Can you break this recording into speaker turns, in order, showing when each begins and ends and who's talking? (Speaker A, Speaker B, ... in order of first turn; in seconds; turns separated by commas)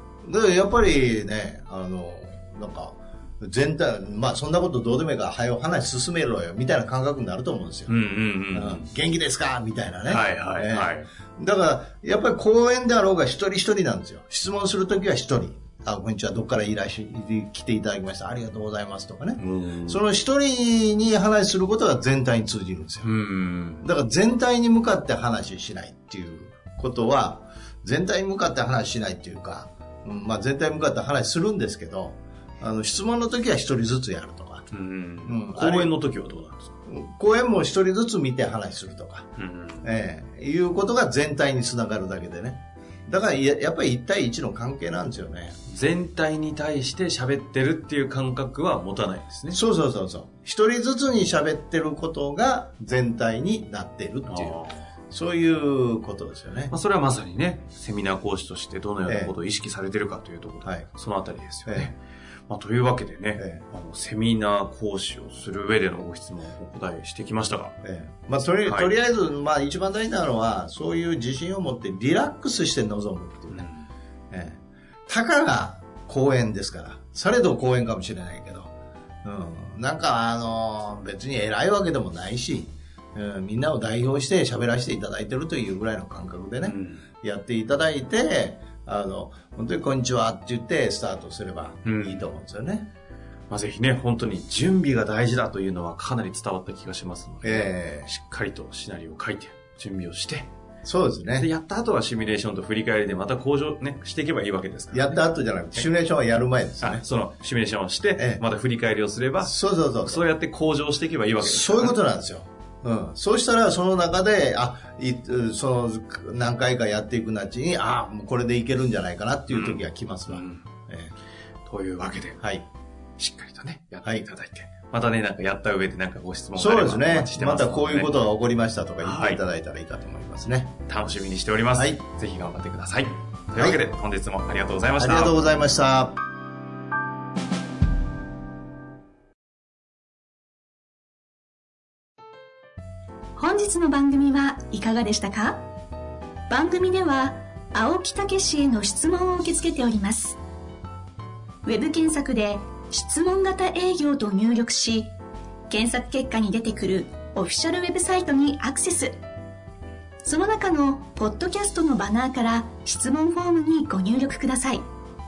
Speaker A: 0.2-8.0, Speaker B: 7.9-8.9, Speaker A: 8.5-23.1, Speaker B: 10.1-11.1, Speaker B: 19.4-20.0, Speaker B: 23.0-23.9, Speaker A: 23.8-34.7, Speaker B: 34.7-36.7, Speaker A: 35.2-36.0, Speaker A: 36.9-39.3, Speaker B: 39.4-39.9, Speaker A: 39.8-45.6, Speaker B: 45.7-49.6, Speaker A: 49.5-56.7, Speaker B: 54.3-54.9, Speaker B: 56.7-67.8, Speaker A: 59.1-59.3, Speaker A: 63.4-63.6, Speaker A: 67.8-73.7, Speaker B: 68.5-68.9, Speaker B: 73.5-73.9, Speaker A: 74.3-78.7, Speaker A: 79.2-92.9, Speaker B: 86.6-87.0, Speaker B: 91.8-92.3, Speaker B: 93.5-100.5, Speaker A: 97.4-98.1, Speaker A: 100.8-101.5, Speaker B: 101.3-105.2, Speaker A: 104.9-107.0, Speaker B: 106.8-112.0, Speaker A: 108.2-108.4, Speaker A: 109.4-110.2, Speaker A: 111.4-121.1, Speaker B: 119.5-120.7, Speaker B: 121.7-122.4, Speaker A: 122.4-122.7, Speaker B: 123.2-128.2, Speaker A: 126.6-130.7, Speaker B: 129.0-129.4, Speaker B: 130.9-135.4, Speaker A: 135.0-136.2, Speaker C: 143.4-145.6, Speaker C: 146.5-150.4, Speaker C: 151.7-155.1, Speaker C: 155.7-159.2, Speaker C: 160.2-164.8